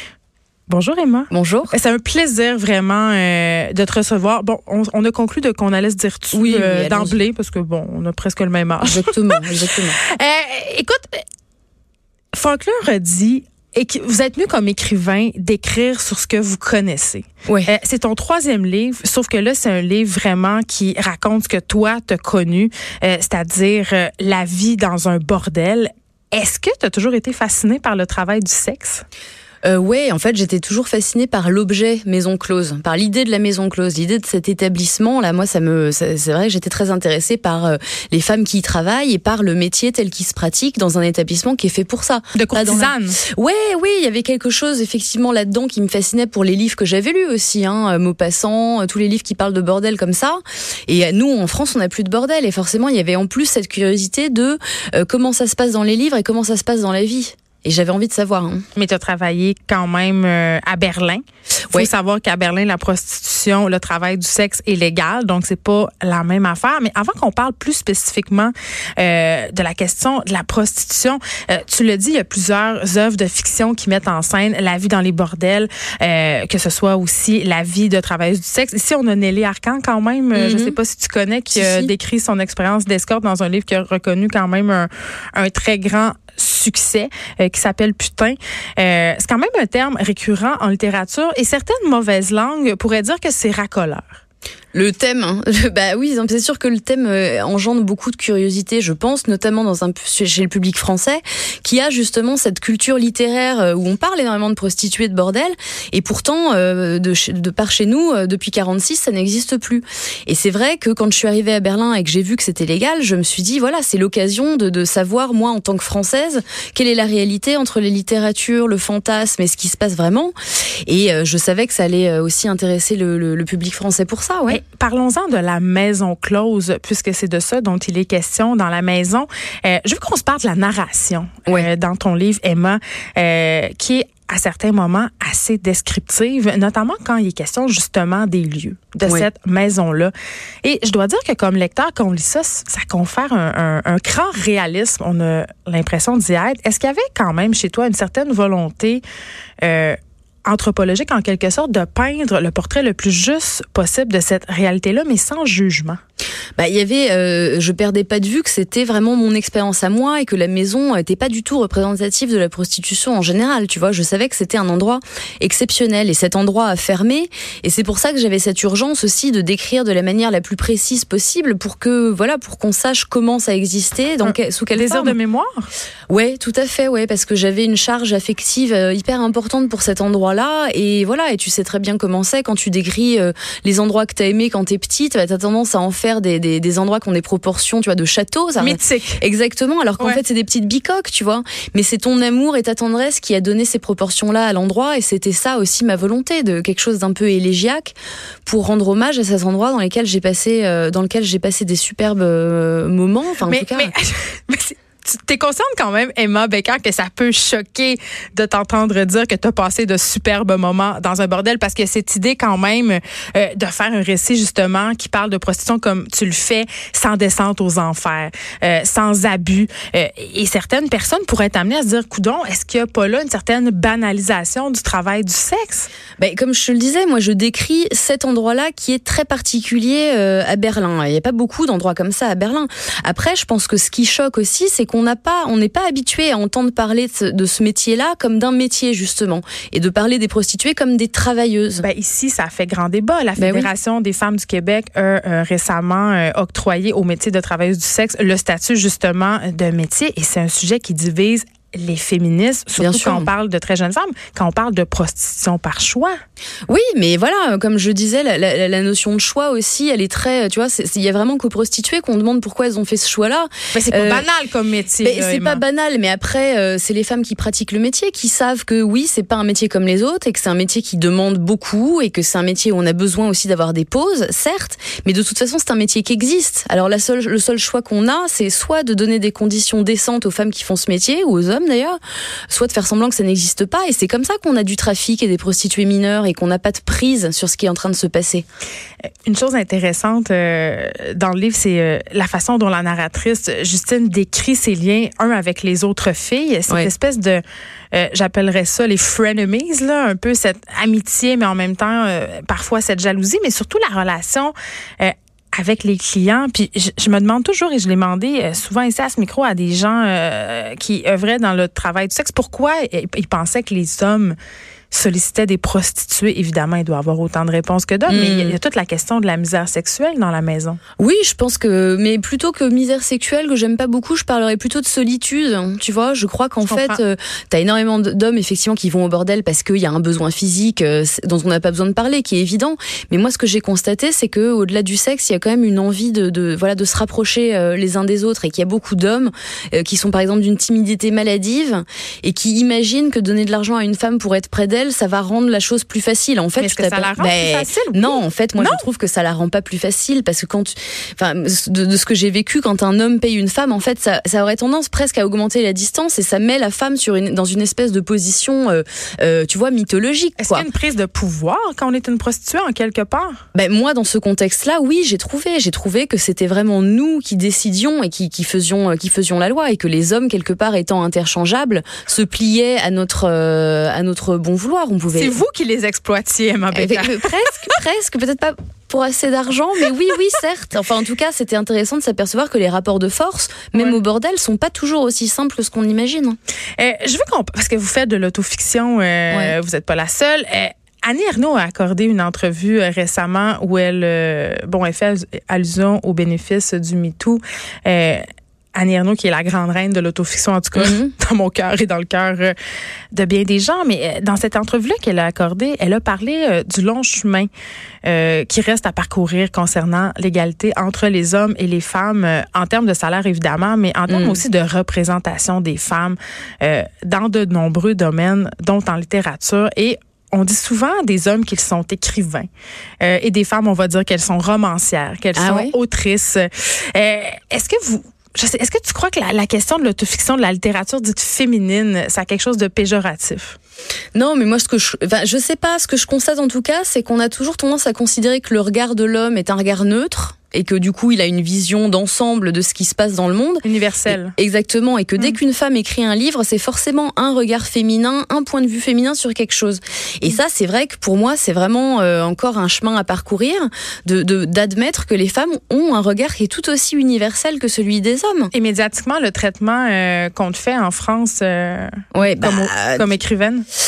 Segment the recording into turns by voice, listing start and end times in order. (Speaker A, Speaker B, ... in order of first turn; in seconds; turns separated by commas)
Speaker A: 0.7-9.3, Speaker B: 1.3-1.7, Speaker B: 6.3-7.2, Speaker B: 8.8-10.0, Speaker A: 10.0-11.2, Speaker A: 12.3-29.0, Speaker B: 29.6-58.7, Speaker A: 42.3-43.2, Speaker A: 58.8-94.2, Speaker B: 80.3-80.7, Speaker B: 81.5-81.9, Speaker B: 94.7-120.3, Speaker B: 120.9-124.6, Speaker A: 124.5-140.1, Speaker A: 140.6-149.0, Speaker A: 149.6-156.0, Speaker B: 156.6-175.2, Speaker A: 174.2-175.7, Speaker B: 176.1-203.9, Speaker A: 188.6-189.2, Speaker A: 203.4-225.9, Speaker B: 226.2-241.9, Speaker A: 241.8-256.1, Speaker B: 243.4-243.7, Speaker B: 252.8-253.3, Speaker B: 256.7-264.2, Speaker A: 263.7-265.6, Speaker B: 265.0-282.0, Speaker B: 282.5-288.4, Speaker A: 289.2-314.4, Speaker A: 314.9-320.8, Speaker B: 318.1-318.6, Speaker B: 321.0-360.7, Speaker A: 326.7-327.0, Speaker A: 346.6-348.8, Speaker A: 360.4-363.4, Speaker B: 363.5-375.4, Speaker A: 375.1-377.8, Speaker B: 376.7-386.4, Speaker A: 383.7-384.0, Speaker A: 386.8-398.2, Speaker B: 389.3-389.5, Speaker A: 398.7-402.5, Speaker B: 400.7-401.1, Speaker A: 403.1-407.5, Speaker A: 408.0-422.5, Speaker B: 414.1-414.4, Speaker A: 423.0-433.6, Speaker B: 425.4-425.7, Speaker B: 434.1-458.5, Speaker A: 443.6-444.3, Speaker A: 458.5-463.6, Speaker B: 462.1-463.1